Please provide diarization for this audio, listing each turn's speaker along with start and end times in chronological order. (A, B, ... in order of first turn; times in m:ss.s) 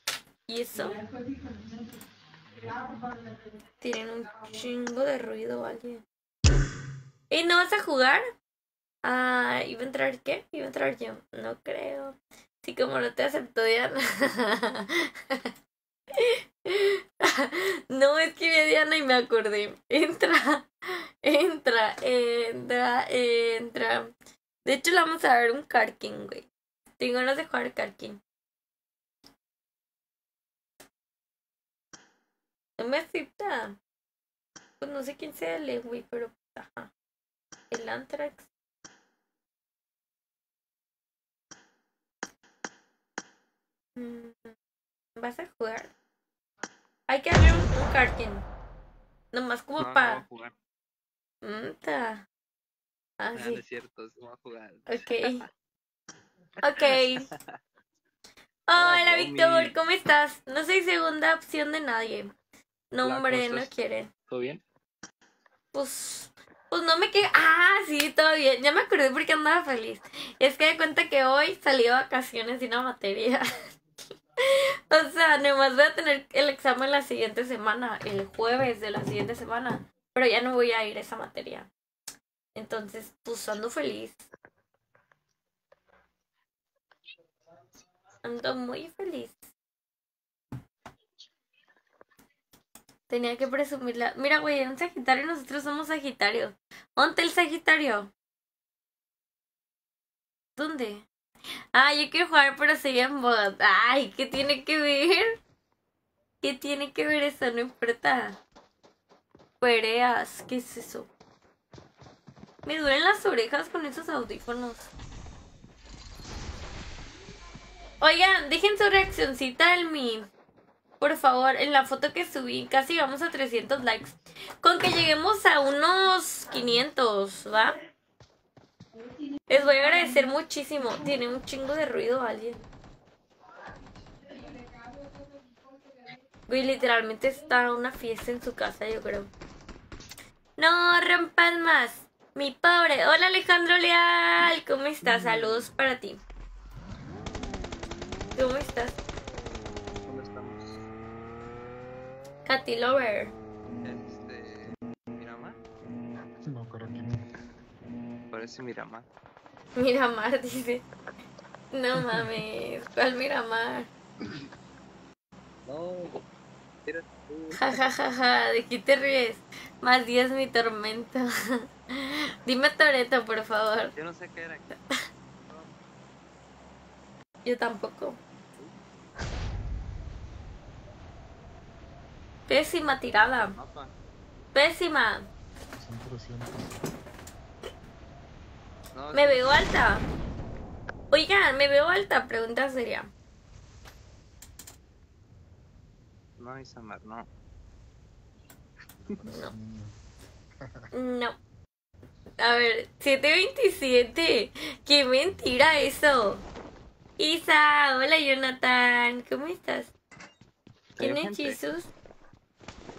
0:00.5-0:01.0 A
0:03.8-0:06.0 A
0:07.3-0:08.3 A
0:09.0-0:15.5 A
0:16.2-0:24.1 A
0:24.6-0:26.5 A
0:27.0-0:28.2 A
0:32.8-0:33.8 A
0:34.8-0:36.9 A
0:37.7-0:38.5 A
0:44.0-0:44.5 A
0:45.2-0:45.9 A
0:47.1-0:48.4 A
0:49.3-0:50.2 A
0:49.8-0:50.5 B
0:51.4-0:52.2 A
0:53.2-0:53.6 A
0:53.3-0:55.4 B
0:54.9-0:55.5 A
0:56.6-0:57.3 A
0:56.8-0:57.5 B
0:58.7-1:02.3 A
0:58.7-0:59.7 B
1:02.9-1:04.1 A
1:03.0-1:03.7 B
1:04.3-1:04.6 B
1:05.7-1:13.4 A
1:14.5-1:21.7 A
1:22.6-1:24.2 A
1:28.2-1:29.5 A
1:33.1-1:38.1 A
1:40.6-1:41.0 A
1:41.7-1:45.4 A
1:46.4-1:48.4 A
1:49.6-1:51.1 A
1:52.6-1:54.9 A
1:58.0-2:00.3 A
2:01.0-2:07.8 A
2:09.5-2:12.6 A
2:16.5-2:19.3 A
2:20.6-2:26.2 A
2:28.3-2:29.0 A
2:30.0-2:30.8 B
2:32.4-2:33.3 A
2:33.8-2:35.6 B
2:36.5-2:37.2 C
2:38.3-2:39.0 B
2:39.8-2:40.8 A
2:41.7-2:43.9 A
2:45.6-2:46.2 B
2:46.8-2:47.8 B
2:47.5-2:53.9 A
2:53.9-2:54.8 B
2:55.3-2:55.7 B
2:57.4-2:58.2 A
3:02.5-3:03.5 A
3:03.4-3:03.9 B
3:04.5-3:05.3 A
3:05.8-3:06.7 C
3:08.9-3:09.7 B
3:09.1-3:10.1 A
3:11.1-3:13.1 A
3:16.4-3:17.3 B
3:19.1-3:19.9 C
3:19.3-3:19.5 A
3:20.6-3:20.9 C
3:20.9-3:21.4 A
3:22.4-3:26.4 A
3:27.2-3:29.9 A
3:31.0-3:31.6 B
3:31.0-3:31.9 A